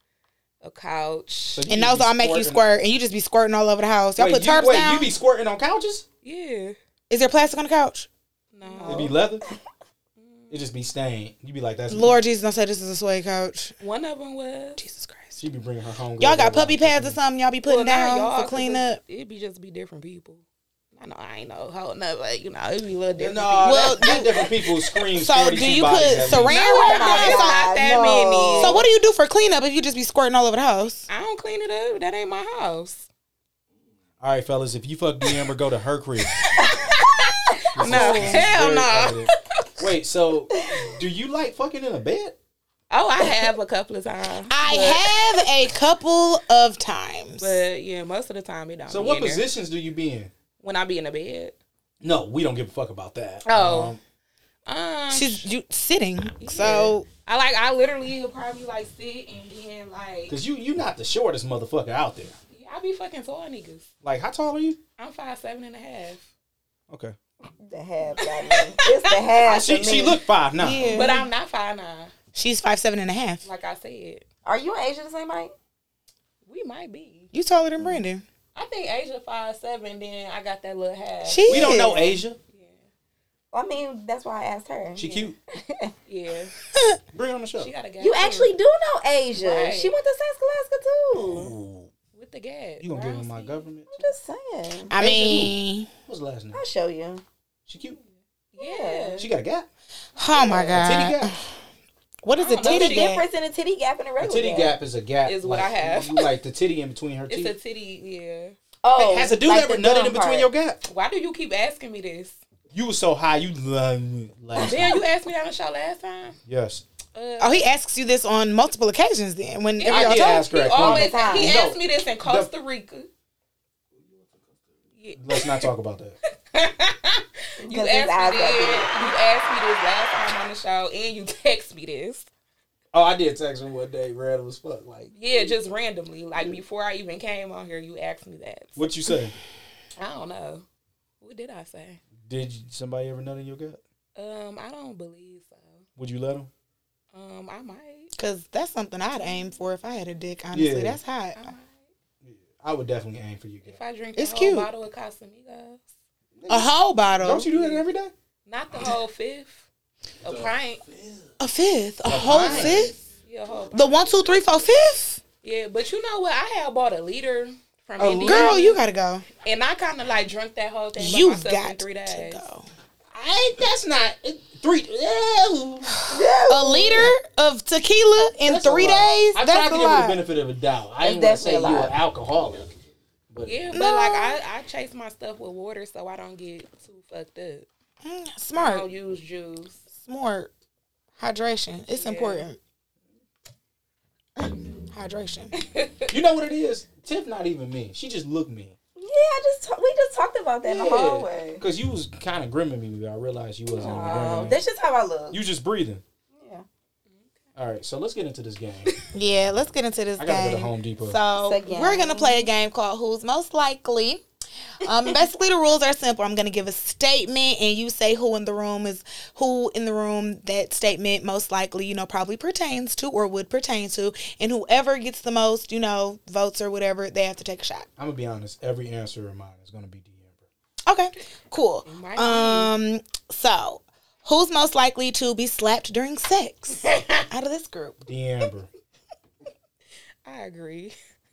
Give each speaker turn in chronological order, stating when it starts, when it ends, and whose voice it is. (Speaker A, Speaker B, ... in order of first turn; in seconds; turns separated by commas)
Speaker A: 0.6-1.6, Speaker B: 1.5-2.6, Speaker C: 1.7-5.1, Speaker B: 4.2-6.0, Speaker A: 6.2-6.8, Speaker C: 7.1-8.1, Speaker A: 8.5-9.2, Speaker D: 8.6-9.6, Speaker B: 8.9-9.4, Speaker A: 10.2-10.6, Speaker B: 10.5-12.2, Speaker C: 11.9-13.7, Speaker A: 13.8-14.8, Speaker C: 14.8-15.4, Speaker B: 15.4-17.2, Speaker C: 16.2-19.0, Speaker A: 17.6-20.4, Speaker A: 21.0-24.4, Speaker B: 23.2-26.5, Speaker C: 23.6-24.4, Speaker C: 25.2-27.6, Speaker A: 26.2-28.9, Speaker D: 26.5-28.8, Speaker C: 28.6-31.1, Speaker A: 31.1-33.1, Speaker B: 34.2-36.5, Speaker A: 36.4-39.4, Speaker D: 36.6-36.9, Speaker B: 37.7-42.4, Speaker C: 37.8-38.5, Speaker A: 42.9-45.5, Speaker C: 44.5-47.6, Speaker A: 47.4-49.5, Speaker B: 48.9-50.3, Speaker A: 50.6-51.6, Speaker B: 52.0-54.0, Speaker A: 53.5-54.0, Speaker A: 54.7-55.5, Speaker C: 55.1-57.1, Speaker A: 56.4-60.4, Speaker B: 60.3-62.4, Speaker A: 62.5-63.9, Speaker B: 64.0-64.8, Speaker A: 65.0-66.3, Speaker B: 66.9-67.2, Speaker D: 67.6-70.2, Speaker A: 68.2-69.2, Speaker B: 69.4-71.1, Speaker C: 70.6-71.3, Speaker A: 70.9-72.1, Speaker C: 72.3-73.4, Speaker A: 73.4-74.2, Speaker D: 74.5-75.5, Speaker A: 76.5-77.3, Speaker C: 77.3-78.2, Speaker A: 78.5-81.9, Speaker C: 81.2-82.2, Speaker B: 81.5-82.4, Speaker A: 82.5-82.8, Speaker D: 83.5-85.9, Speaker B: 85.0-85.4, Speaker A: 85.0-85.3, Speaker A: 86.1-86.5, Speaker B: 87.1-87.7, Speaker A: 87.6-88.5, Speaker D: 88.0-91.5, Speaker A: 89.3-90.0, Speaker B: 91.2-91.9, Speaker A: 92.1-93.7, Speaker B: 92.8-94.1, Speaker D: 93.9-94.9, Speaker C: 94.9-95.9, Speaker B: 95.0-96.6, Speaker D: 96.5-97.2, Speaker B: 97.7-98.0, Speaker A: 97.8-99.3, Speaker D: 98.6-99.3, Speaker B: 99.2-99.7, Speaker C: 100.2-101.5, Speaker D: 100.3-100.8, Speaker B: 100.7-101.4, Speaker C: 102.2-103.2, Speaker A: 102.4-103.2, Speaker D: 102.6-104.8, Speaker B: 104.2-107.5, Speaker A: 105.2-106.3, Speaker A: 107.3-108.6, Speaker D: 108.8-110.5, Speaker B: 109.0-110.8, Speaker A: 110.9-112.4, Speaker B: 112.7-115.0, Speaker A: 114.6-116.4, Speaker B: 116.5-116.8, Speaker A: 117.1-117.7, Speaker C: 117.4-120.5, Speaker A: 119.8-123.1, Speaker B: 119.9-122.5, Speaker D: 120.8-121.6, Speaker A: 125.0-125.7, Speaker B: 125.2-126.2, Speaker A: 126.5-132.3, Speaker D: 127.6-129.1, Speaker B: 132.9-135.1, Speaker A: 135.2-138.9, Speaker B: 138.8-139.3, Speaker A: 140.0-140.7, Speaker A: 141.2-142.0, Speaker B: 142.2-143.8, Speaker A: 144.2-145.8, Speaker B: 146.0-146.5, Speaker A: 147.1-148.1, Speaker C: 148.2-151.5, Speaker B: 150.5-151.0, Speaker A: 151.3-151.8, Speaker B: 152.2-153.8, Speaker A: 153.7-155.9, Speaker C: 154.2-154.7, Speaker B: 156.3-158.1, Speaker C: 156.5-157.5, Speaker A: 157.4-157.8, Speaker A: 158.5-159.7, Speaker A: 160.2-160.8, Speaker B: 160.2-161.3, Speaker C: 161.4-162.9, Speaker B: 162.1-162.9, Speaker A: 162.2-164.2, Speaker C: 163.7-165.2, Speaker A: 165.4-168.8, Speaker B: 168.0-168.6, Speaker C: 168.2-169.3, Speaker A: 169.4-172.4, Speaker C: 171.0-172.7, Speaker B: 173.1-175.9, Speaker D: 176.1-177.1, Speaker C: 176.5-180.2, Speaker B: 178.4-182.7, Speaker D: 181.0-182.0, Speaker B: 183.3-183.6, Speaker A: 183.4-187.7, Speaker C: 183.7-184.4, Speaker C: 188.0-188.8, Speaker A: 188.6-189.8, Speaker C: 189.9-190.5, Speaker C: 191.2-192.6, Speaker A: 191.9-192.5, Speaker C: 194.9-195.6, Speaker A: 195.6-196.1, Speaker B: 196.1-198.8, Speaker D: 199.0-201.6, Speaker B: 200.7-204.6, Speaker D: 203.7-205.4, Speaker B: 205.3-206.0, Speaker D: 206.3-206.7, Speaker B: 207.6-208.9, Speaker C: 209.1-214.2, Speaker B: 210.2-211.2, Speaker D: 211.4-212.5, Speaker C: 214.8-227.9, Speaker B: 228.0-230.5, Speaker C: 230.9-238.0, Speaker A: 231.9-232.7, Speaker A: 236.8-237.2, Speaker B: 238.1-238.7, Speaker A: 240.2-240.9